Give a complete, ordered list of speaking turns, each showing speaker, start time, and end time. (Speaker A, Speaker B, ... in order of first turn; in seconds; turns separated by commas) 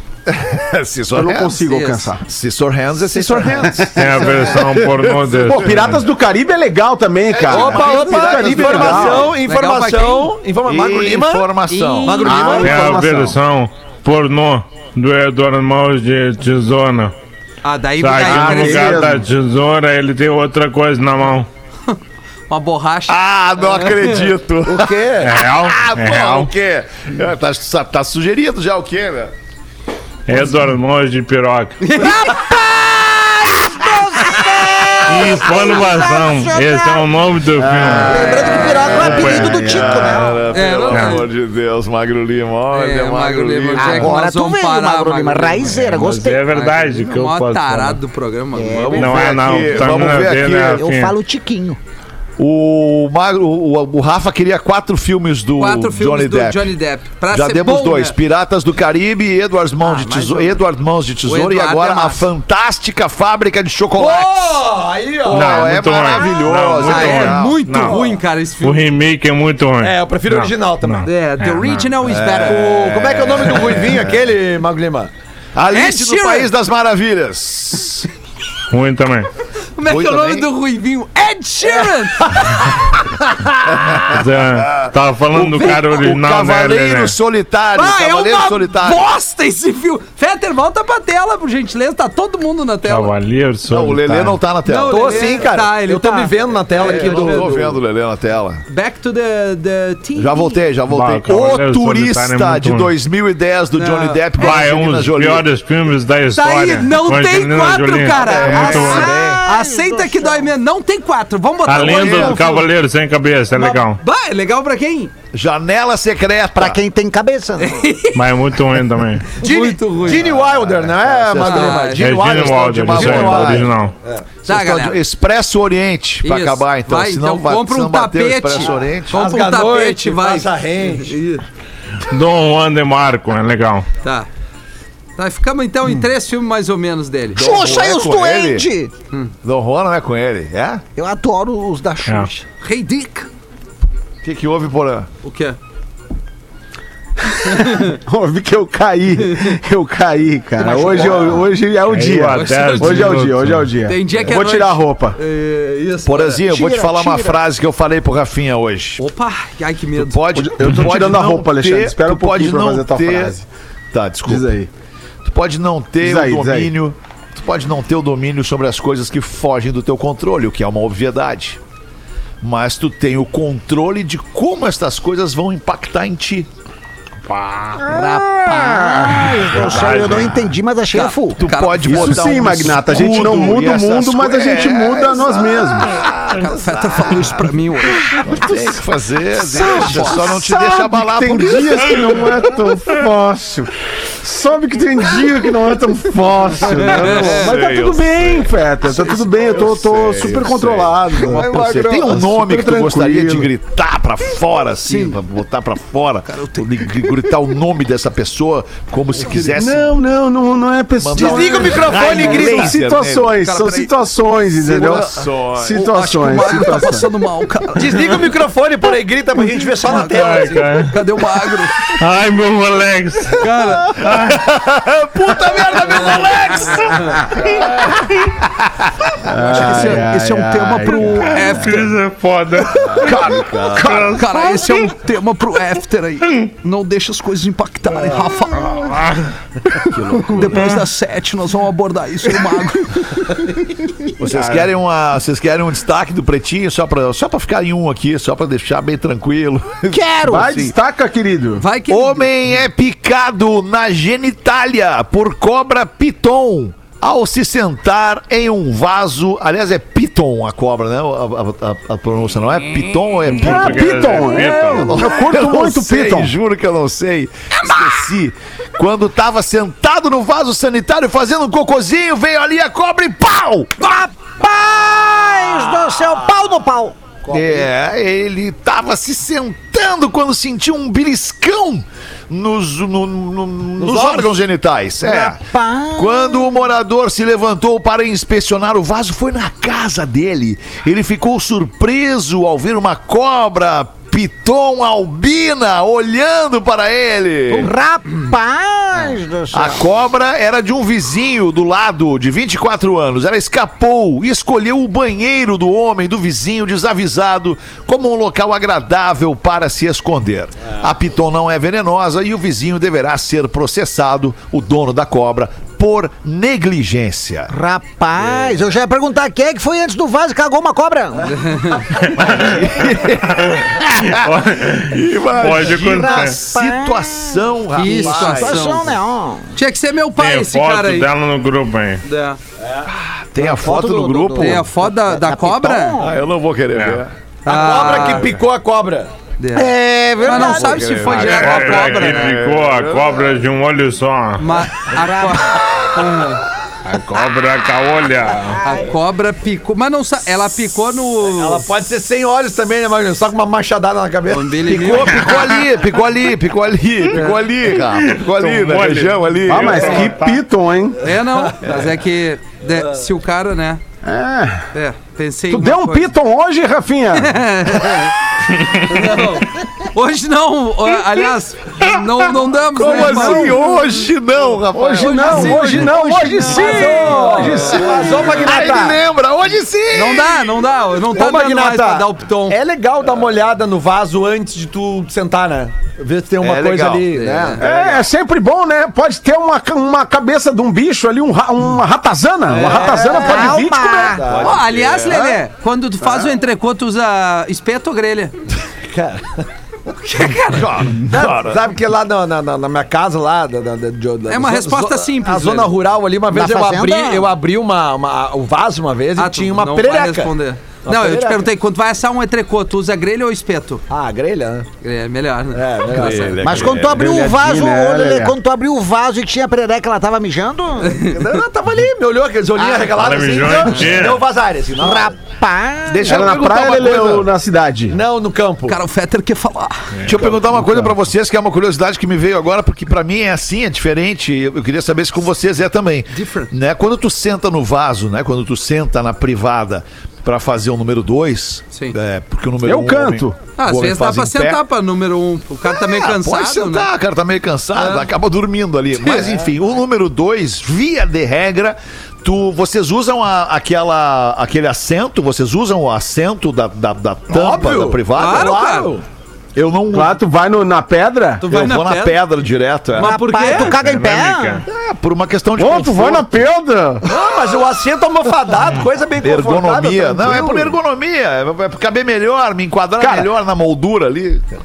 Speaker A: 0.3-1.6, Speaker B: 1.1-2.2, Speaker C: 1.6-2.1, Speaker A: 2.2-5.9, Speaker B: 3.5-3.9, Speaker D: 3.9-6.0, Speaker B: 5.4-9.3, Speaker A: 7.3-9.3, Speaker E: 7.5-11.5, Speaker C: 9.4-10.3, Speaker A: 10.7-12.3, Speaker C: 11.7-12.9, Speaker E: 12.0-12.8, Speaker B: 12.2-13.4, Speaker D: 12.6-17.1, Speaker C: 17.6-19.2, Speaker D: 18.0-21.5, Speaker B: 18.1-19.2, Speaker C: 22.5-24.3, Speaker A: 23.1-29.3, Speaker E: 24.6-25.3, Speaker D: 25.2-26.5, Speaker D: 30.3-31.8, Speaker C: 31.8-32.3, Speaker F: 32.0-37.2, Speaker D: 35.0-39.7, Speaker B: 37.6-38.2, Speaker F: 38.0-40.4, Speaker C: 38.0-39.3, Speaker A: 38.9-44.1, Speaker B: 39.3-40.1, Speaker C: 40.5-41.2, Speaker D: 40.9-41.2, Speaker C: 42.7-45.8, Speaker F: 43.8-46.4, Speaker D: 45.7-48.0, Speaker C: 46.5-50.0, Speaker F: 48.5-49.1, Speaker A: 48.7-50.8, Speaker D: 48.9-51.1, Speaker F: 50.8-51.8, Speaker A: 52.4-56.7, Speaker C: 55.6-58.1, Speaker A: 57.3-64.6, Speaker C: 59.8-60.6, Speaker C: 61.2-62.3, Speaker E: 63.9-65.6, Speaker C: 65.3-65.7, Speaker A: 65.3-67.7, Speaker D: 65.3-68.0, Speaker F: 66.0-66.3, Speaker C: 66.8-68.9, Speaker E: 67.8-68.2, Speaker D: 68.6-71.9, Speaker E: 69.8-71.1, Speaker C: 71.0-73.0, Speaker A: 72.0-74.1, Speaker E: 72.2-75.1, Speaker A: 75.5-78.1, Speaker C: 75.7-76.5, Speaker D: 78.7-79.3, Speaker C: 79.8-82.7, Speaker A: 79.8-80.5, Speaker A: 83.6-89.0, Speaker D: 84.0-87.1, Speaker C: 87.7-93.1, Speaker D: 92.8-94.4, Speaker A: 93.7-95.5, Speaker C: 94.7-97.6, Speaker E: 94.8-97.8, Speaker A: 96.8-98.6, Speaker C: 98.7-100.6, Speaker A: 100.1-105.5, Speaker D: 100.9-102.9, Speaker C: 103.8-104.6, Speaker D: 104.4-109.1, Speaker C: 106.3-112.7, Speaker A: 108.1-109.4, Speaker F: 108.3-110.5, Speaker D: 111.6-114.0, Speaker A: 111.7-112.5, Speaker C: 113.5-115.1, Speaker A: 115.3-116.8, Speaker F: 116.5-117.9, Speaker C: 117.6-118.3, Speaker D: 118.1-119.3, Speaker C: 119.4-120.3, Speaker E: 119.4-124.2, Speaker A: 120.2-123.7, Speaker C: 121.4-122.1, Speaker D: 122.0-123.9, Speaker A: 124.4-129.2, Speaker C: 124.5-125.0, Speaker C: 126.2-131.4, Speaker E: 128.6-131.2, Speaker D: 132.1-133.9, Speaker C: 135.2-137.4, Speaker A: 137.3-138.7, Speaker F: 137.3-138.9, Speaker A: 139.4-140.8, Speaker F: 140.9-142.4, Speaker C: 142.6-143.3, Speaker A: 144.2-145.1, Speaker C: 145.2-145.6, Speaker B: 147.3-155.2, Speaker C: 147.4-147.9, Speaker C: 149.2-149.6, Speaker F: 150.6-151.4, Speaker A: 150.9-151.2, Speaker D: 151.8-153.7, Speaker C: 152.3-153.3, Speaker C: 153.8-156.4, Speaker A: 156.0-159.0, Speaker F: 156.5-157.4, Speaker C: 159.0-160.2, Speaker A: 159.9-163.3, Speaker B: 160.3-163.4, Speaker A: 163.9-164.5, Speaker B: 164.3-164.7, Speaker A: 165.2-171.6, Speaker B: 166.0-166.7, Speaker A: 172.4-176.5, Speaker D: 177.2-177.8, Speaker F: 177.8-181.4, Speaker C: 177.9-178.2, Speaker B: 178.0-179.8, Speaker D: 179.5-180.5, Speaker C: 180.9-182.3, Speaker A: 181.4-187.4, Speaker B: 181.8-185.9, Speaker C: 186.3-188.2, Speaker A: 188.2-192.2, Speaker C: 189.5-190.4, Speaker B: 189.5-193.7, Speaker B: 194.2-203.5, Speaker C: 196.8-197.6, Speaker A: 196.9-198.5, Speaker A: 199.4-209.9, Speaker F: 201.3-202.2, Speaker C: 204.8-205.2, Speaker C: 206.3-207.3, Speaker B: 209.5-217.1, Speaker A: 211.0-213.4, Speaker E: 211.2-212.7, Speaker C: 211.5-212.6, Speaker C: 213.4-213.9, Speaker A: 214.6-215.8, Speaker C: 214.7-215.0, Speaker C: 215.7-218.2, Speaker E: 217.7-220.8, Speaker D: 219.8-220.9, Speaker C: 220.4-222.0, Speaker D: 221.9-224.5, Speaker C: 223.3-223.9, Speaker A: 224.0-227.0, Speaker C: 226.8-227.2, Speaker B: 229.2-231.3, Speaker C: 229.3-231.9, Speaker D: 231.3-234.8, Speaker A: 232.9-234.2, Speaker C: 234.1-239.0, Speaker D: 238.8-239.2, Speaker A: 239.9-240.6, Speaker C: 240.2-243.1, Speaker A: 244.2-250.0, Speaker B: 244.3-244.6, Speaker F: 249.9-250.7, Speaker B: 250.2-251.6, Speaker C: 251.6-252.3, Speaker A: 251.9-273.8, Speaker D: 263.3-265.0, Speaker B: 263.3-266.3, Speaker F: 273.8-277.1, Speaker A: 277.3-285.4, Speaker E: 283.8-284.3, Speaker F: 285.0-286.7, Speaker A: 285.9-297.7, Speaker F: 297.5-299.8, Speaker A: 299.5-317.5, Speaker F: 317.5-321.8, Speaker C: 321.3-322.1, Speaker A: 322.2-328.9, Speaker D: 322.2-326.4, Speaker F: 325.8-329.5, Speaker C: 327.7-328.9, Speaker C: 329.5-331.1, Speaker D: 330.2-332.0, Speaker C: 332.0-332.4, Speaker A: 332.9-334.7, Speaker F: 333.4-336.2, Speaker C: 334.4-336.0, Speaker A: 336.0-337.1, Speaker D: 336.7-337.0, Speaker E: 337.4-339.1, Speaker C: 337.4-338.3, Speaker C: 339.4-342.4, Speaker F: 339.5-341.0, Speaker A: 340.3-343.4, Speaker D: 341.0-344.4, Speaker C: 344.4-346.4, Speaker F: 344.9-345.4, Speaker D: 346.8-348.6, Speaker C: 348.6-351.7, Speaker E: 351.2-355.1, Speaker C: 354.3-355.5, Speaker A: 354.6-360.1, Speaker D: 357.8-360.4, Speaker B: 359.4-361.0, Speaker C: 361.0-363.8, Speaker B: 364.0-364.7, Speaker C: 364.7-366.1, Speaker B: 365.5-367.4, Speaker C: 367.2-368.2, Speaker D: 368.6-369.1, Speaker C: 368.7-373.7, Speaker A: 372.7-376.3, Speaker B: 372.8-373.6, Speaker B: 374.7-378.4, Speaker C: 375.0-378.2, Speaker E: 376.2-379.0, Speaker A: 378.4-380.5, Speaker C: 379.9-382.6, Speaker E: 381.1-388.0, Speaker A: 386.4-387.1, Speaker C: 387.1-387.6, Speaker B: 387.6-394.2, Speaker E: 392.5-393.6, Speaker C: 392.6-393.5, Speaker F: 393.1-394.2, Speaker E: 394.1-395.2, Speaker A: 394.2-395.2, Speaker C: 394.4-398.3, Speaker E: 398.8-399.4, Speaker C: 400.0-400.9, Speaker A: 400.4-401.6, Speaker E: 401.1-411.5, Speaker C: 404.3-405.7, Speaker F: 406.3-407.3, Speaker C: 409.2-413.8, Speaker E: 413.9-414.7, Speaker C: 414.8-416.4, Speaker E: 415.5-416.5, Speaker A: 415.9-417.2, Speaker F: 416.4-421.0, Speaker B: 416.8-418.4, Speaker C: 420.8-421.1, Speaker E: 420.9-425.1, Speaker F: 422.6-422.9, Speaker D: 422.9-424.2, Speaker F: 424.8-426.2, Speaker A: 425.9-427.3, Speaker B: 426.0-428.0, Speaker E: 427.9-428.8, Speaker C: 428.7-429.9, Speaker D: 429.9-430.2, Speaker A: 430.0-444.6, Speaker E: 430.1-430.5, Speaker B: 430.6-430.9, Speaker C: 436.1-436.5, Speaker B: 442.6-443.4, Speaker C: 443.6-446.9, Speaker A: 445.6-458.6, Speaker C: 447.8-448.0, Speaker C: 449.0-449.3, Speaker E: 457.3-459.0, Speaker C: 458.1-458.9, Speaker A: 459.6-460.2, Speaker B: 459.9-461.4, Speaker C: 461.4-462.2, Speaker A: 461.5-463.2, Speaker C: 462.9-463.8, Speaker F: 463.0-464.6, Speaker D: 463.5-464.6, Speaker A: 464.6-466.4, Speaker B: 465.6-467.1, Speaker E: 467.1-470.7, Speaker A: 469.2-474.5, Speaker B: 473.0-473.3